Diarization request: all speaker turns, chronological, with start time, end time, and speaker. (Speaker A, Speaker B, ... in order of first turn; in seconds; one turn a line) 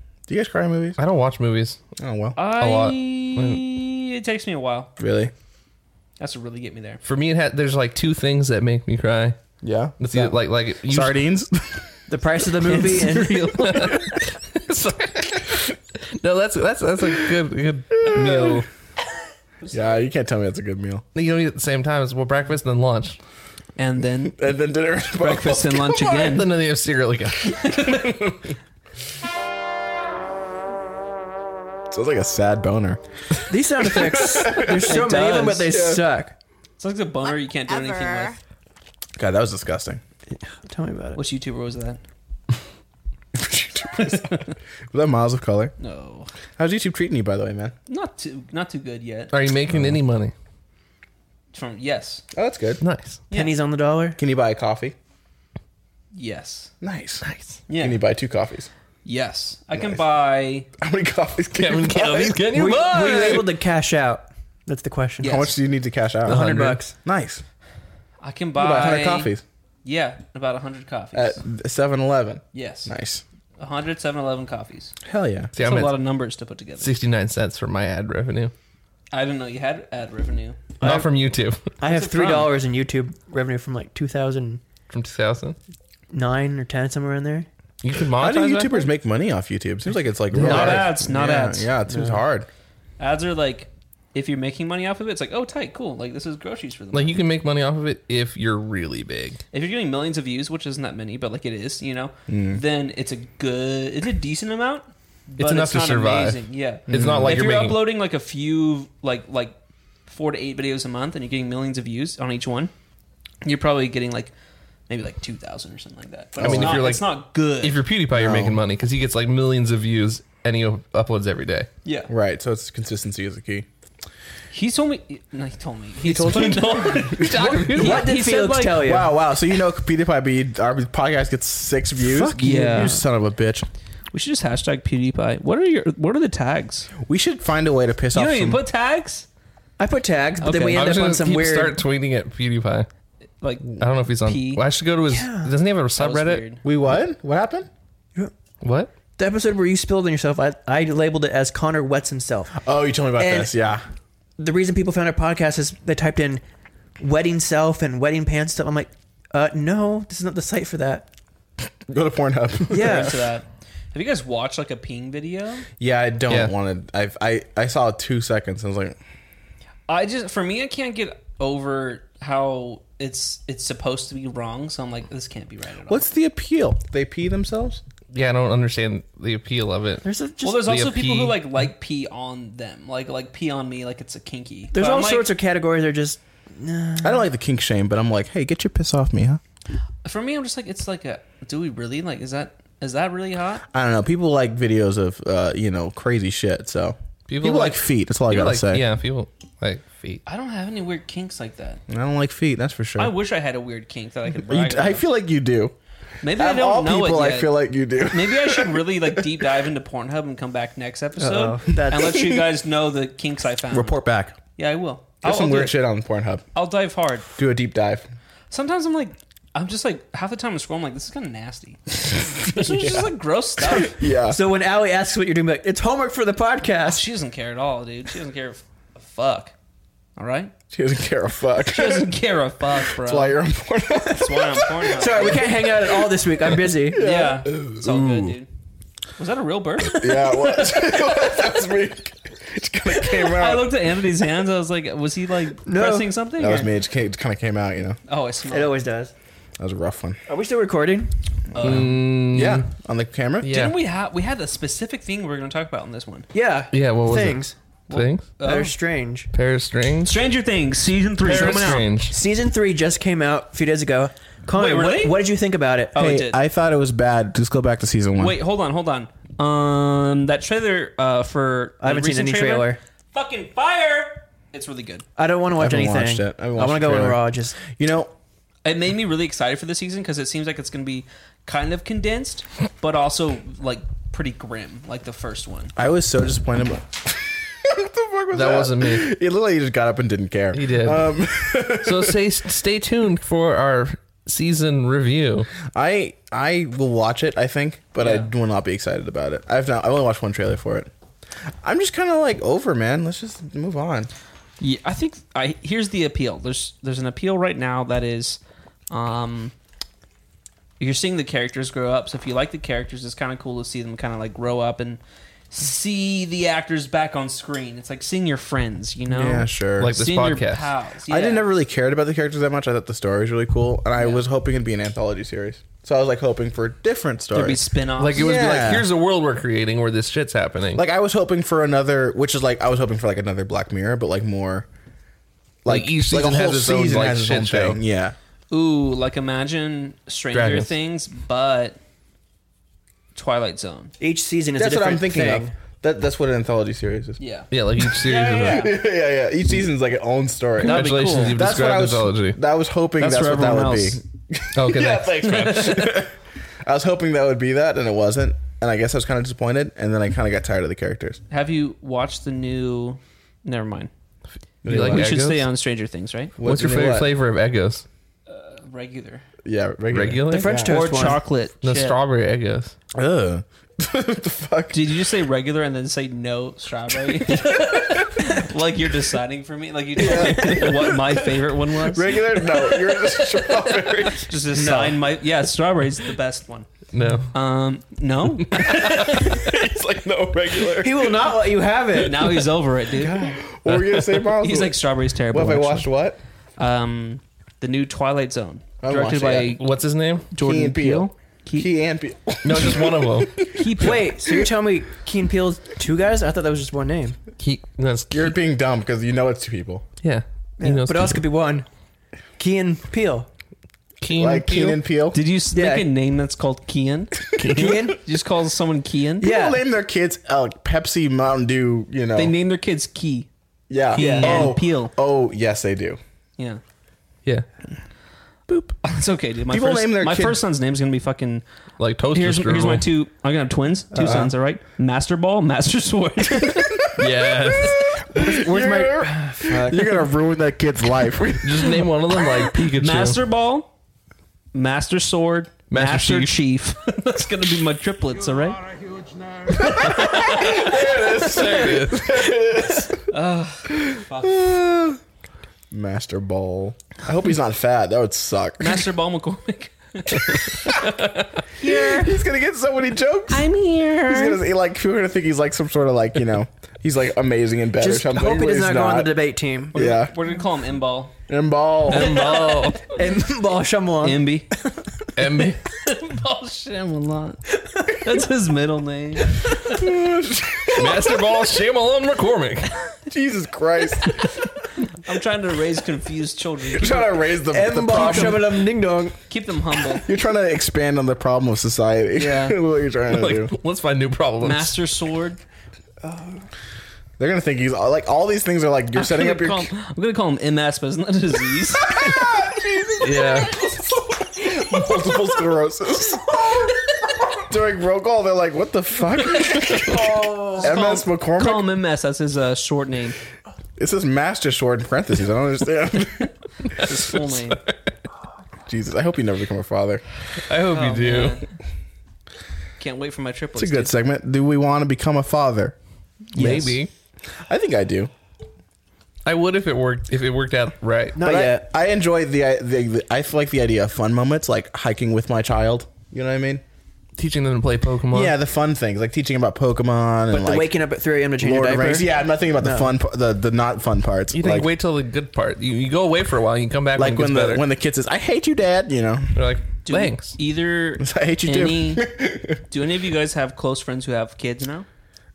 Speaker A: 0.3-1.0
Speaker B: 1.0-1.8
Speaker A: 2.0-2.4
Speaker C: 2.4-4.9
Speaker B: 2.6-3.6
Speaker A: 5.0-5.3
Speaker C: 6.2-7.0
Speaker B: 7.0-9.4
Speaker A: 9.6-11.9
Speaker B: 10.0-11.2
Speaker D: 12.1-13.7
Speaker C: 12.6-14.1
Speaker B: 12.8-18.7
Speaker A: 18.1-18.6
Speaker A: 19.7-21.0
Speaker B: 21.1-23.2
Speaker C: 23.8-24.4
Speaker A: 24.3-26.4
Speaker C: 25.2-26.5
Speaker B: 26.1-27.7
Speaker C: 27.4-28.2
Speaker A: 31.9-33.0
Speaker D: 33.5-36.4
Speaker A: 33.8-35.1
Speaker C: 34.7-35.8
Speaker A: 35.6-36.1
Speaker C: 36.8-38.4
Speaker A: 39.2-40.0
Speaker D: 40.4-41.2
Speaker C: 41.1-42.0
Speaker A: 43.3-45.7
Speaker C: 45.8-46.3
Speaker A: 46.6-47.7
Speaker C: 47.9-49.3
Speaker B: 49.3-50.3
Speaker C: 51.5-52.2
Speaker A: 52.3-52.8
Speaker B: 52.8-53.2
Speaker C: 53.3-53.6
Speaker D: 53.3-54.2
Speaker A: 54.2-54.9
Speaker C: 56.1-56.7
Speaker A: 56.8-57.2
Speaker B: 57.2-57.6
Speaker C: 57.7-58.0
Speaker A: 57.8-58.7
Speaker C: 59.0-60.7
Speaker A: 60.8-62.6
Speaker B: 61.6-63.6
Speaker D: 62.5-65.5
Speaker C: 65.2-65.5
Speaker A: 65.2-66.5
Speaker B: 66.3-66.8
Speaker D: 66.3-66.9
Speaker A: 67.0-67.4
Speaker C: 68.2-69.3
Speaker A: 68.5-69.4
Speaker C: 69.8-71.4
Speaker A: 71.1-73.2
Speaker C: 72.5-72.9
Speaker C: 73.6-74.9
Speaker A: 75.0-75.5
Speaker B: 75.5-76.0
Speaker C: 75.6-76.9
Speaker B: 76.8-78.5
Speaker C: 79.1-80.6
Speaker D: 80.8-81.1
Speaker B: 80.8-81.7
Speaker D: 81.8-84.6
Speaker C: 81.8-82.5
Speaker B: 84.9-85.6
Speaker D: 86.1-87.5
Speaker B: 87.8-88.9
Speaker A: 88.2-92.5
Speaker D: 90.3-90.8
Speaker C: 90.3-91.7
Speaker D: 91.9-92.2
Speaker C: 93.0-97.2
Speaker B: 96.9-99.4
Speaker C: 99.5-109.6
Speaker A: 102.3-102.6
Speaker B: 105.4-107.8
Speaker A: 106.9-107.5
Speaker C: 110.1-112.7
Speaker C: 113.4-114.3
Speaker C: 114.9-117.8
Speaker A: 116.4-116.9
Speaker B: 116.4-121.7
Speaker A: 118.1-118.6
Speaker C: 121.8-122.1
Speaker A: 122.1-123.7
Speaker C: 124.5-128.9
Speaker A: 126.0-127.6
Speaker B: 127.2-128.1
Speaker D: 127.3-129.1
Speaker A: 128.8-133.7
Speaker D: 132.0-133.0
Speaker C: 132.4-132.9
Speaker C: 134.1-136.9
Speaker A: 137.0-138.6
Speaker C: 138.1-139.3
Speaker D: 139.8-141.8
Speaker C: 140.4-140.9
Speaker B: 140.6-142.9
Speaker C: 143.4-144.6
Speaker B: 143.8-146.4
Speaker D: 145.1-145.5
Speaker C: 146.0-146.6
Speaker A: 146.6-147.7
Speaker B: 148.6-148.9
Speaker D: 149.2-152.6
Speaker A: 152.6-153.8
Speaker D: 153.2-153.5
Speaker D: 154.4-156.4
Speaker D: 157.0-161.1
Speaker A: 161.9-163.1
Speaker C: 162.7-165.7
Speaker D: 162.7-163.2
Speaker A: 165.8-169.0
Speaker C: 169.9-176.1
Speaker A: 175.9-177.8
Speaker B: 178.1-181.4
Speaker D: 180.0-180.6
Speaker C: 180.4-185.3
Speaker D: 184.7-187.3
Speaker A: 187.0-189.4
Speaker C: 190.0-193.6
Speaker A: 193.7-198.8
Speaker B: 197.3-200.2
Speaker C: 200.3-201.8
Speaker A: 201.9-203.1
Speaker C: 203.0-205.0
Speaker A: 204.4-205.7
Speaker C: 206.2-207.6
Speaker A: 206.3-209.4
Speaker C: 208.1-214.0
Speaker D: 211.2-212.4
Speaker A: 213.7-214.4
Speaker C: 214.6-215.8
Speaker A: 215.2-216.4
Speaker C: 216.6-217.3
Speaker A: 217.3-218.1
Speaker C: 218.5-224.0
Speaker A: 222.4-223.1
Speaker A: 223.6-224.4
Speaker D: 224.2-227.1
Speaker C: 226.9-229.5
Speaker C: 230.2-230.5
Speaker A: 230.7-232.1
Speaker C: 231.7-233.4
Speaker A: 232.9-235.1
Speaker C: 234.1-235.7
Speaker D: 234.9-237.1
Speaker A: 236.8-238.4
Speaker C: 236.9-238.5
Speaker C: 239.2-241.1
Speaker A: 239.9-243.7
Speaker C: 243.0-246.7
Speaker D: 245.6-246.1
Speaker A: 246.4-248.0
Speaker C: 248.1-248.8
Speaker D: 248.5-249.1
Speaker A: 249.6-250.2
Speaker D: 250.3-251.1
Speaker C: 251.5-252.0
Speaker B: 251.6-252.7
Speaker A: 251.6-253.6
Speaker B: 253.4-253.8
Speaker C: 253.5-256.3
Speaker D: 256.3-257.6
Speaker B: 256.7-258.3
Speaker C: 257.9-258.8
Speaker D: 258.4-259.3
Speaker B: 259.3-260.2
Speaker C: 260.1-261.9
Speaker B: 261.2-262.1
Speaker D: 261.2-265.9
Speaker C: 264.5-265.2
Speaker C: 265.9-266.4
Speaker A: 265.9-268.4
Speaker C: 268.2-275.1
Speaker D: 271.8-272.8
Speaker D: 275.2-277.6
Speaker A: 275.6-278.1
Speaker C: 278.6-285.8
Speaker A: 285.8-292.2
Speaker B: 288.3-289.1
Speaker B: 290.5-291.1
Speaker B: 291.8-295.5
Speaker A: 295.7-300.9
Speaker C: 298.0-298.3
Speaker A: 301.6-304.1
Speaker C: 304.6-309.5
Speaker C: 310.8-315.0
Speaker C: 315.5-321.5
Speaker A: 319.1-319.9
Speaker B: 319.8-320.7
Speaker A: 321.1-327.6
Speaker C: 324.0-324.2
Speaker C: 327.3-328.6
Speaker B: 328.0-330.8
Speaker A: 328.1-328.9
Speaker A: 330.8-334.7
Speaker A: 335.6-338.1
Speaker B: 335.6-337.8
Speaker C: 338.5-341.8
Speaker B: 340.3-340.7
Speaker C: 343.1-343.9
Speaker D: 344.0-345.5
Speaker A: 344.6-347.2
Speaker C: 347.2-348.8
Speaker B: 347.5-348.7
Speaker A: 348.4-361.2
Speaker C: 350.6-351.4
Speaker B: 350.6-352.4
Speaker C: 353.0-354.0
Speaker B: 354.6-355.7
Speaker C: 355.2-356.0
Speaker C: 361.3-363.9
Speaker A: 364.6-365.1
Speaker B: 364.6-365.4
Speaker C: 364.7-366.3
Speaker A: 366.4-367.1
Speaker B: 366.4-367.9
Speaker C: 368.3-369.2
Speaker A: 369.4-370.8
Speaker B: 369.9-370.6
Speaker D: 370.3-371.2
Speaker C: 370.6-372.0
Speaker B: 371.6-372.7
Speaker A: 372.9-374.9
Speaker C: 374.7-386.7
Speaker A: 377.2-378.3
Speaker A: 380.0-381.2
Speaker D: 380.0-380.7
Speaker A: 381.8-384.8
Speaker D: 384.5-385.0
Speaker B: 386.9-387.3
Speaker C: 387.3-389.5
Speaker B: 388.6-389.0
Speaker A: 388.6-391.1
Speaker D: 390.7-392.4
Speaker C: 391.9-393.4
Speaker A: 393.0-394.8
Speaker B: 393.7-394.2
Speaker C: 394.3-395.9
Speaker A: 395.3-396.2
Speaker C: 396.6-399.6
Speaker A: 398.8-399.6
Speaker B: 399.5-400.3
Speaker C: 400.3-401.7
Speaker A: 400.4-404.5
Speaker B: 402.4-403.4
Speaker C: 403.6-404.1
Speaker D: 403.8-407.2
Speaker B: 407.4-408.4
Speaker A: 408.1-409.9
Speaker B: 410.0-411.2
Speaker D: 410.6-411.6
Speaker D: 412.4-413.3
Speaker B: 414.0-414.8
Speaker A: 414.1-415.2
Speaker C: 415.1-419.3
Speaker D: 415.5-415.9
Speaker A: 417.3-417.9
Speaker D: 417.4-418.0
Speaker D: 419.2-419.6
Speaker A: 419.2-422.3
Speaker C: 422.1-423.3
Speaker A: 423.7-426.0
Speaker C: 423.9-424.9
Speaker D: 423.9-424.5
Speaker C: 428.8-431.4
Speaker A: 429.5-430.4
Speaker B: 431.8-432.9
Speaker C: 432.1-436.9
Speaker D: 434.0-434.3
Speaker A: 434.0-434.3
Speaker B: 436.9-437.9
Speaker A: 437.0-441.9
Speaker D: 438.1-440.1
Speaker B: 441.4-443.2
Speaker C: 442.8-443.7
Speaker C: 444.5-448.7
Speaker B: 445.7-446.4
Speaker A: 449.5-453.1
Speaker C: 449.5-450.8
Speaker B: 450.3-452.3
Speaker C: 453.1-454.5
Speaker A: 453.7-455.0
Speaker A: 455.7-458.9
Speaker C: 458.6-461.0
Speaker A: 460.4-460.9
Speaker D: 461.6-462.1
Speaker A: 461.6-469.2
Speaker C: 461.6-462.1
Speaker C: 463.3-464.4
Speaker D: 467.8-469.8
Speaker A: 469.7-470.1
Speaker C: 469.7-471.1
Speaker A: 471.3-472.4
Speaker B: 471.9-472.9
Speaker C: 471.9-472.9
Speaker D: 472.8-474.6
Speaker C: 474.0-474.5
Speaker B: 475.1-475.6
Speaker C: 475.2-479.4
Speaker A: 479.6-481.2
Speaker B: 480.7-482.7
Speaker A: 483.1-484.4
Speaker C: 485.0-487.4
Speaker A: 486.7-488.6
Speaker D: 487.5-489.2
Speaker C: 487.9-488.4
Speaker C: 489.3-490.1
Speaker A: 490.0-493.5
Speaker C: 492.1-492.6
Speaker B: 493.1-494.7
Speaker C: 494.4-495.4
Speaker D: 496.0-496.4
Speaker A: 497.2-499.7
Speaker C: 498.9-502.4
Speaker A: 501.8-506.8
Speaker B: 503.0-503.7
Speaker A: 507.4-511.7
Speaker C: 509.5-513.1
Speaker A: 513.8-516.3
Speaker C: 516.8-517.6
Speaker B: 516.8-517.7
Speaker A: 518.7-520.0
Speaker B: 520.5-521.4
Speaker C: 520.7-521.4
Speaker C: 522.8-523.9
Speaker A: 523.6-525.8
Speaker B: 526.3-526.9
Speaker A: 526.4-526.8
Speaker A: 527.4-528.1
Speaker B: 529.2-531.2
Speaker D: 531.1-531.6
Speaker A: 531.2-536.6
Speaker B: 537.2-538.3
Speaker A: 538.1-540.7
Speaker D: 540.3-542.9
Speaker A: 541.4-544.7
Speaker B: 544.3-547.6
Speaker A: 547.0-549.4
Speaker B: 549.4-550.4
Speaker C: 549.9-552.0
Speaker A: 551.0-552.6
Speaker C: 552.7-554.9